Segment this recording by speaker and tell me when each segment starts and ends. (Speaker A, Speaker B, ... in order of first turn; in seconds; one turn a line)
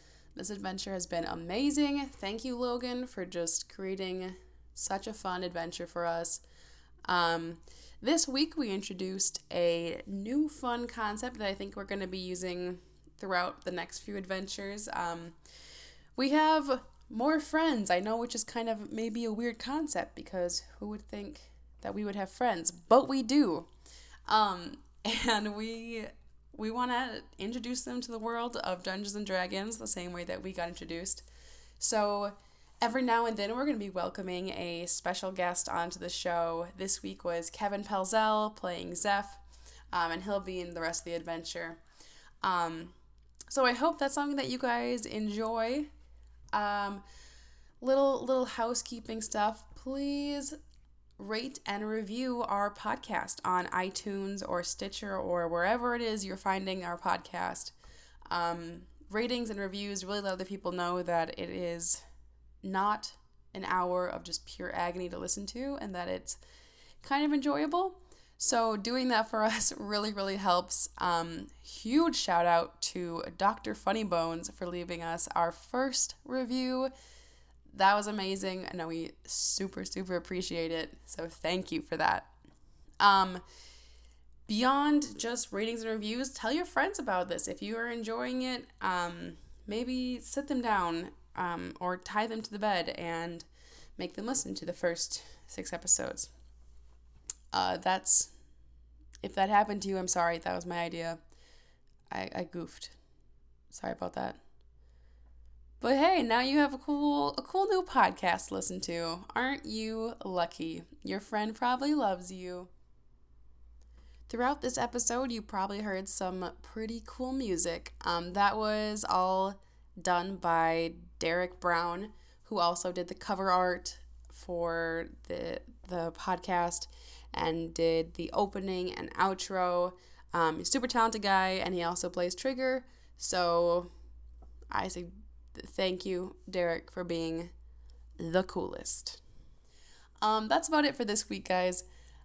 Speaker A: 0.4-6.4
Speaker A: 7.1-15.3
Speaker A: 16.2-23.7
Speaker A: 24.3-31.2
Speaker A: 31.8-39.4
Speaker A: 39.9-41.8
Speaker A: 42.4-42.9
Speaker A: 43.5-45.9
Speaker A: 46.5-47.0
Speaker A: 47.8-50.6
Speaker A: 51.2-57.7
Speaker A: 58.3-62.0
Speaker A: 62.6-66.4
Speaker A: 67.0-76.9
Speaker A: 77.7-82.3
Speaker A: 83.0-83.4
Speaker A: 84.5-93.5
Speaker A: 94.0-96.3
Speaker A: 97.5-98.3
Speaker A: 99.2-101.2
Speaker A: 102.1-102.9
Speaker A: 103.7-104.4
Speaker A: 105.8-112.7
Speaker A: 114.3-133.9
Speaker A: 134.7-137.5
Speaker A: 138.2-139.2
Speaker A: 140.2-141.8